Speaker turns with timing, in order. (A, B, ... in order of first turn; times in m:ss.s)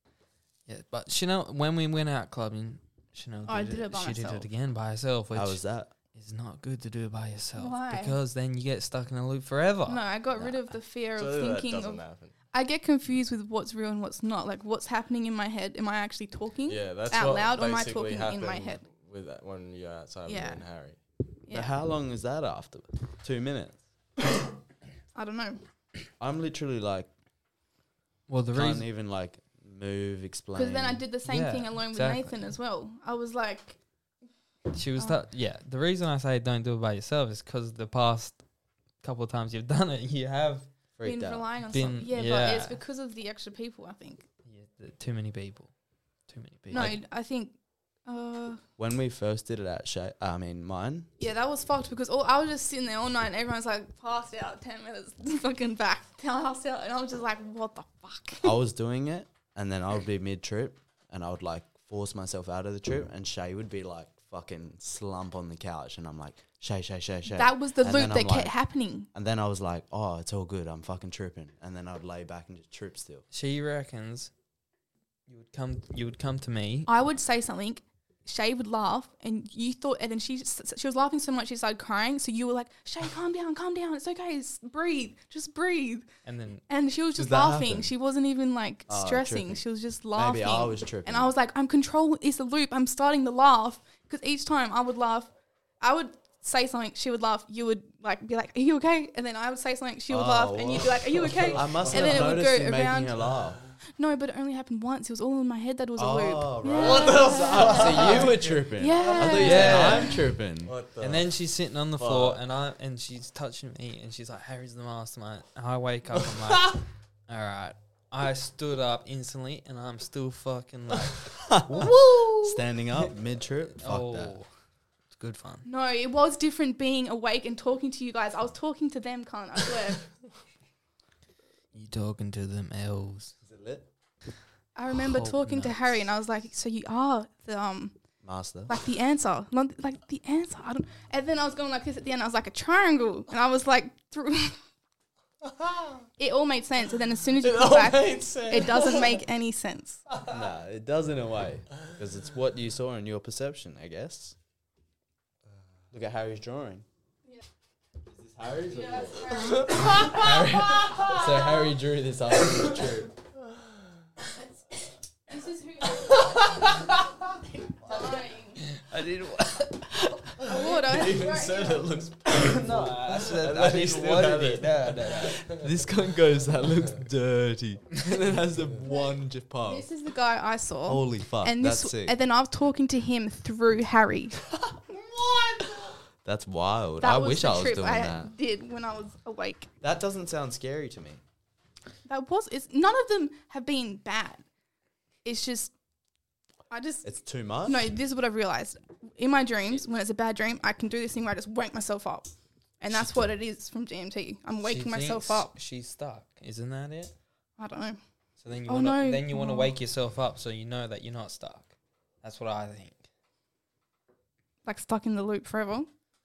0:00.7-0:05.6 A
0:03.5-0:04.5 B
0:05.3-0:05.9 C
0:06.1-0:10.0 A
0:07.6-0:08.2 B
0:09.8-0:18.8 B
0:11.1-0:12.3 D
0:16.6-0:21.0 D
0:20.3-0:20.6 B
0:21.4-0:21.7 B
0:21.5-0:23.8 C
0:25.1-0:25.6 B
0:26.2-0:27.1 C
0:28.3-0:28.9 A
0:28.5-0:31.0 C
0:30.5-0:33.8 B
0:31.2-0:32.5 A
0:34.7-0:38.4 A
0:39.0-0:40.7 A
0:41.0-0:41.5 C
0:41.0-0:44.2 B
0:41.7-0:42.8 A
0:44.4-0:45.7 A
0:46.3-0:47.0 A
0:46.7-0:48.6 B
0:48.8-0:51.1 C
0:51.2-0:58.6 B
0:58.4-1:08.5 C
1:07.3-1:09.1 B
1:09.1-1:13.2 C
1:13.3-1:14.3 A
1:15.3-1:16.9 A
1:16.9-1:26.1 B
1:26.2-1:26.6 A
1:26.7-1:43.2 B
1:27.1-1:27.9 C
1:28.9-1:29.6 C
1:30.1-1:31.3 C
1:40.1-1:43.6 C
1:41.1-1:42.3 D
1:43.3-1:43.7 D
1:44.0-1:50.2 B
1:46.0-1:50.7 C
1:46.7-1:50.0 D
1:49.2-1:50.2 A
1:50.6-1:51.3 D
1:51.0-2:02.4 A
1:52.0-1:52.4 D
1:56.3-1:56.8 D
2:01.4-2:04.4 C
2:03.8-2:04.5 A
2:05.1-2:05.7 A
2:05.6-2:10.1 B
2:11.7-2:13.4 A
2:13.4-2:13.9 C
2:14.7-2:17.9 B
2:15.0-2:16.1 A
2:18.2-2:18.7 C
2:18.7-2:24.6 B
2:26.2-2:30.0 B
2:27.3-2:29.2 D
2:30.3-2:34.4 C
2:35.9-2:36.8 C
2:38.1-2:43.1 C
2:38.6-2:40.1 D
2:38.7-2:40.1 B
2:45.3-2:46.4 B
2:47.6-2:48.6 B
2:48.6-2:49.9 A
2:50.4-2:52.0 B
2:50.5-2:55.6 D
2:52.3-2:55.5 A
2:55.5-2:59.9 C
2:58.9-2:59.1 B
2:59.6-3:04.4 B
3:00.8-3:02.2 C
3:06.2-3:08.3 C
3:07.0-3:09.7 B
3:09.8-3:11.2 C
3:12.0-3:14.4 B
3:15.2-3:15.7 B
3:16.7-3:25.5 B
3:17.0-3:17.9 C
3:24.6-3:27.1 A
3:27.6-3:28.0 B
3:28.4-3:33.0 A
3:28.7-3:29.7 B
3:34.6-3:35.9 B